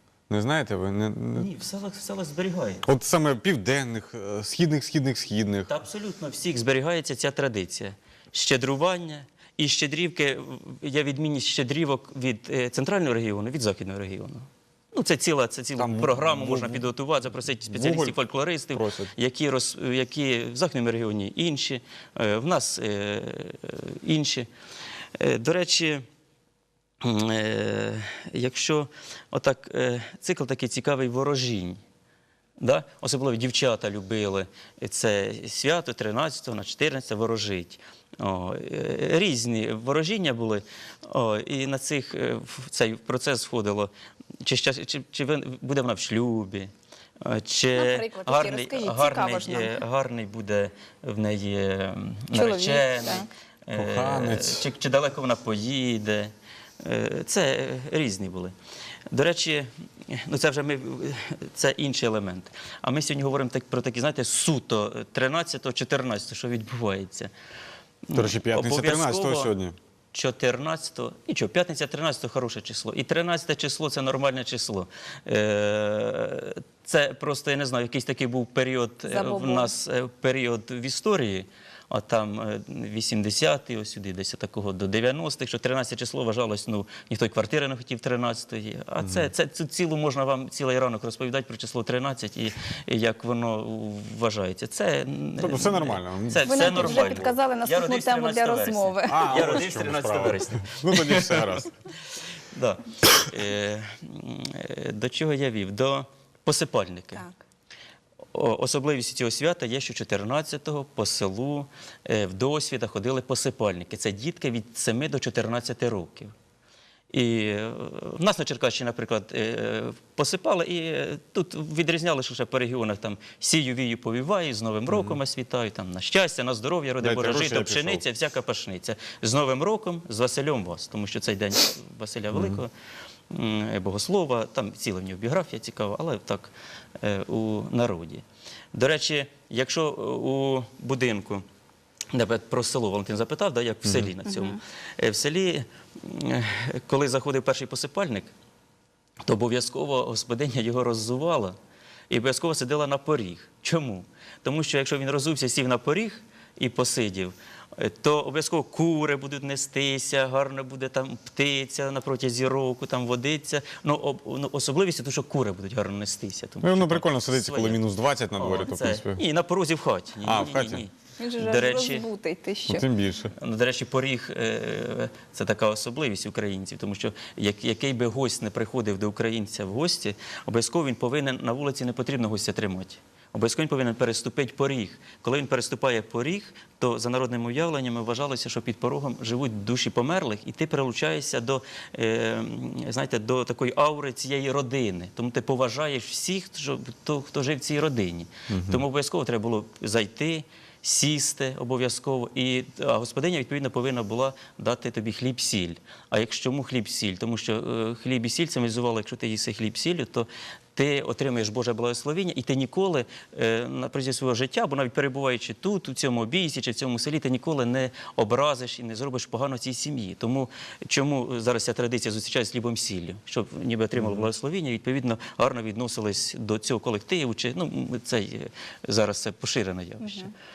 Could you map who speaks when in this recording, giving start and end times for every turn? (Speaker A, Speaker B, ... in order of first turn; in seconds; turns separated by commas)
Speaker A: 0.3-1.5, Speaker B: 1.4-2.8, Speaker A: 2.8-5.7, Speaker B: 5.7-24.5, Speaker A: 15.8-16.8, Speaker A: 17.7-18.2, Speaker A: 18.7-19.1, Speaker B: 25.2-26.0, Speaker B: 27.0-31.8, Speaker B: 32.6-43.9, Speaker B: 44.4-58.5, Speaker C: 47.8-49.8, Speaker C: 52.3-53.3, Speaker A: 53.7-54.7, Speaker B: 59.1-67.3, Speaker B: 68.1-69.5, Speaker A: 68.1-69.8, Speaker B: 70.1-101.7, Speaker C: 79.1-79.7, Speaker A: 89.0-89.3, Speaker A: 95.4-97.3, Speaker C: 96.4-99.6, Speaker A: 99.1-101.7, Speaker B: 102.5-107.2, Speaker B: 108.3-116.3, Speaker B: 117.1-132.7, Speaker A: 124.9-125.2, Speaker A: 127.0-128.0, Speaker A: 132.3-132.6, Speaker B: 133.3-138.2, Speaker B: 138.7-141.4, Speaker B: 142.1-148.3, Speaker A: 143.8-144.1, Speaker C: 144.3-144.6, Speaker B: 149.2-151.6, Speaker B: 152.1-167.8, Speaker A: 166.6-169.2, Speaker B: 168.4-172.1, Speaker A: 170.2-170.8, Speaker C: 171.2-172.9, Speaker A: 172.7-173.3, Speaker B: 173.4-230.3, Speaker A: 198.5-198.8, Speaker A: 224.0-224.3, Speaker C: 230.0-230.3